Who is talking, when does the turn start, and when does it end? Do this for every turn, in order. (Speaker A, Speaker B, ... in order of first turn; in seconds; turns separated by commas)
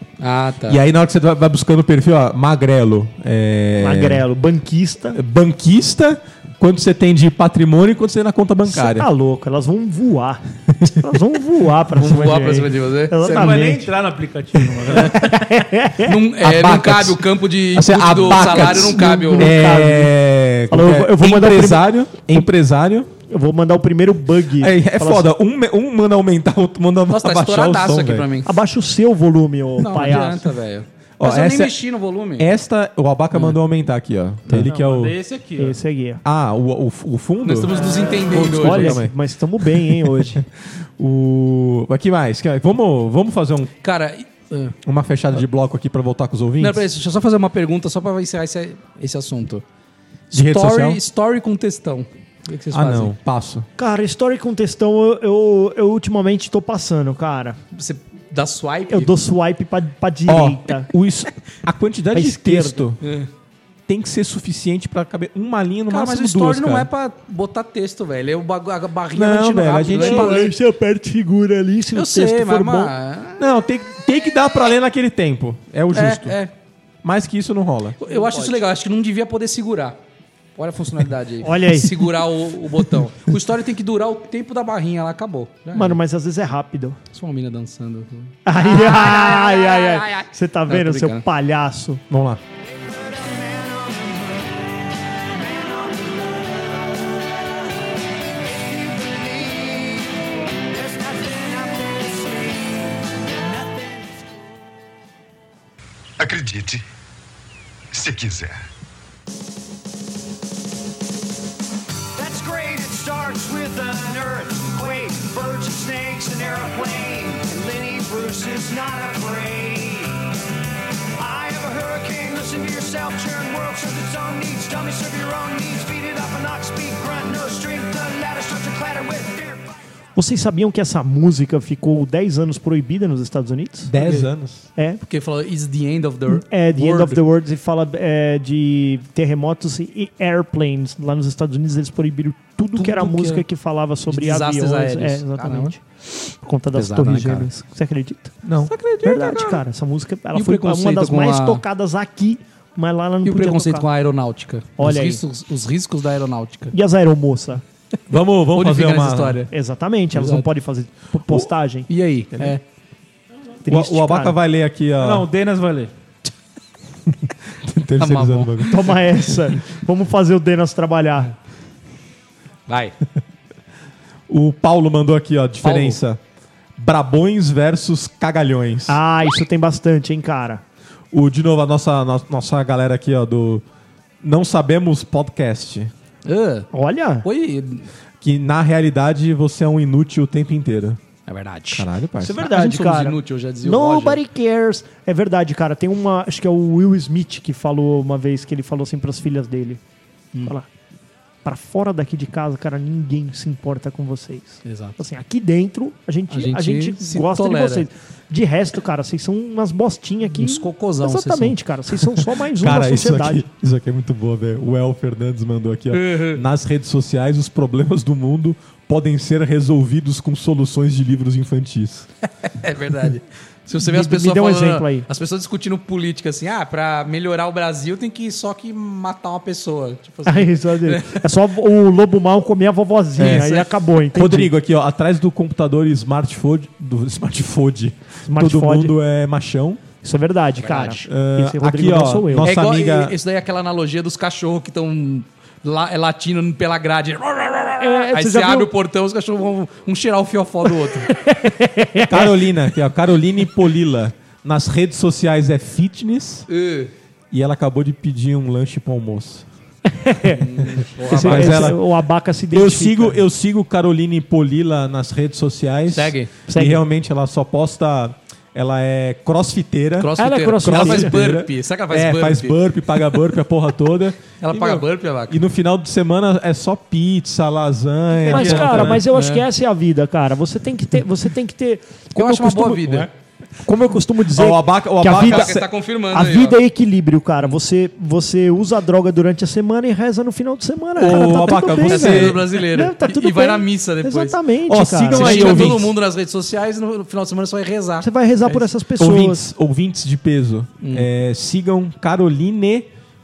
Speaker A: 0.2-0.8, Speaker B: 0.7-4.3, Speaker C: 3.8-5.2, Speaker B: 5.1-9.1, Speaker C: 8.7-13.9, Speaker A: 11.9-13.6, Speaker D: 13.2-15.3, Speaker C: 14.9-16.2, Speaker A: 16.0-19.5, Speaker B: 16.4-17.2, Speaker B: 17.7-23.1, Speaker C: 18.3-20.1, Speaker C: 20.7-22.5, Speaker C: 23.3-25.2, Speaker B: 24.6-28.3, Speaker A: 27.1-28.6, Speaker C: 28.4-30.5, Speaker A: 29.8-32.5, Speaker B: 31.2-31.8, Speaker B: 32.4-35.2, Speaker A: 33.3-33.6, Speaker D: 34.5-35.8, Speaker C: 35.6-36.2, Speaker B: 36.2-43.7, Speaker A: 37.4-39.0, Speaker C: 38.1-40.4, Speaker A: 43.8-44.7, Speaker B: 44.8-46.8, Speaker A: 46.6-49.6, Speaker A: 50.3-53.1, Speaker B: 50.3-51.0, Speaker B: 52.7-53.7, Speaker C: 53.8-57.6, Speaker A: 57.7-59.1, Speaker C: 58.9-60.9, Speaker B: 60.2-63.0, Speaker C: 62.1-62.9, Speaker A: 63.0-63.3, Speaker B: 63.9-66.9, Speaker A: 65.9-70.5, Speaker B: 69.1-70.4, Speaker C: 69.9-72.9, Speaker A: 71.9-73.5, Speaker B: 73.4-76.4, Speaker A: 75.9-76.5, Speaker B: 77.0-78.0, Speaker A: 78.0-80.0, Speaker C: 78.1-78.6, Speaker A: 80.5-86.0, Speaker C: 81.4-82.2, Speaker C: 85.7-87.0, Speaker A: 87.1-91.2, Speaker C: 88.5-92.0, Speaker E: 89.5-90.0, Speaker B: 92.1-92.4, Speaker E: 92.6-97.4, Speaker E: 98.2-104.3, Speaker E: 106.2-106.8, Speaker E: 107.9-108.6, Speaker E: 112.1-120.3, Speaker E: 121.2-129.7, Speaker C: 130.2-133.9, Speaker B: 133.8-134.7, Speaker A: 134.0-134.3, Speaker A: 135.0-137.2, Speaker C: 136.3-145.8, Speaker A: 142.7-143.4, Speaker A: 144.1-145.7, Speaker C: 146.4-148.4, Speaker A: 146.7-147.5, Speaker B: 148.4-148.7, Speaker A: 148.7-149.6, Speaker C: 149.0-153.8, Speaker A: 150.3-151.6, Speaker A: 153.2-156.7, Speaker C: 154.8-155.2, Speaker C: 156.7-157.6, Speaker B: 158.1-159.4, Speaker A: 158.5-159.5, Speaker C: 159.5-161.9, Speaker A: 160.1-160.5, Speaker A: 161.9-162.6, Speaker C: 163.7-164.3, Speaker B: 163.7-165.3, Speaker D: 165.0-165.9, Speaker B: 167.5-168.9, Speaker A: 168.0-168.8, Speaker C: 168.7-171.3, Speaker A: 172.7-172.9, Speaker B: 174.3-176.2, Speaker A: 175.6-176.0, Speaker B: 176.8-179.0, Speaker C: 178.9-180.6, Speaker B: 181.1-183.6, Speaker B: 184.2-185.9, Speaker A: 186.2-186.7, Speaker C: 186.7-187.2, Speaker A: 187.2-187.9, Speaker B: 188.2-191.0, Speaker A: 191.3-194.2, Speaker B: 191.7-192.4, Speaker C: 192.2-199.8, Speaker C: 201.4-213.4, Speaker A: 204.6-205.0, Speaker A: 206.3-207.8, Speaker A: 210.3-211.6, Speaker B: 212.5-222.1, Speaker A: 215.9-216.4, Speaker A: 222.4-231.2, Speaker C: 223.8-225.1, Speaker C: 230.2-234.5, Speaker B: 233.2-239.8, Speaker A: 233.2-233.7, Speaker C: 238.3-238.9, Speaker C: 240.0-242.5, Speaker A: 240.6-241.1, Speaker B: 241.0-243.1, Speaker A: 242.4-251.1, Speaker C: 247.8-248.7, Speaker C: 251.0-252.5, Speaker B: 252.0-256.5, Speaker A: 256.5-256.9, Speaker B: 257.3-259.4, Speaker C: 259.9-263.2, Speaker A: 260.3-261.7, Speaker B: 261.1-261.8, Speaker B: 262.5-270.1, Speaker A: 265.9-266.3, Speaker C: 266.5-266.8, Speaker A: 270.0-273.2, Speaker C: 270.1-271.1, Speaker B: 270.6-279.1, Speaker A: 274.4-275.4, Speaker C: 278.3-283.1, Speaker D: 278.4-279.0, Speaker A: 278.4-279.4, Speaker A: 282.1-283.1, Speaker C: 283.6-285.5, Speaker B: 284.3-285.7, Speaker A: 285.1-286.5, Speaker C: 286.1-295.8, Speaker B: 290.9-292.4, Speaker A: 291.0-294.4, Speaker B: 294.7-295.9, Speaker A: 295.1-298.7, Speaker C: 298.0-299.4, Speaker B: 298.9-302.9, Speaker A: 300.8-301.1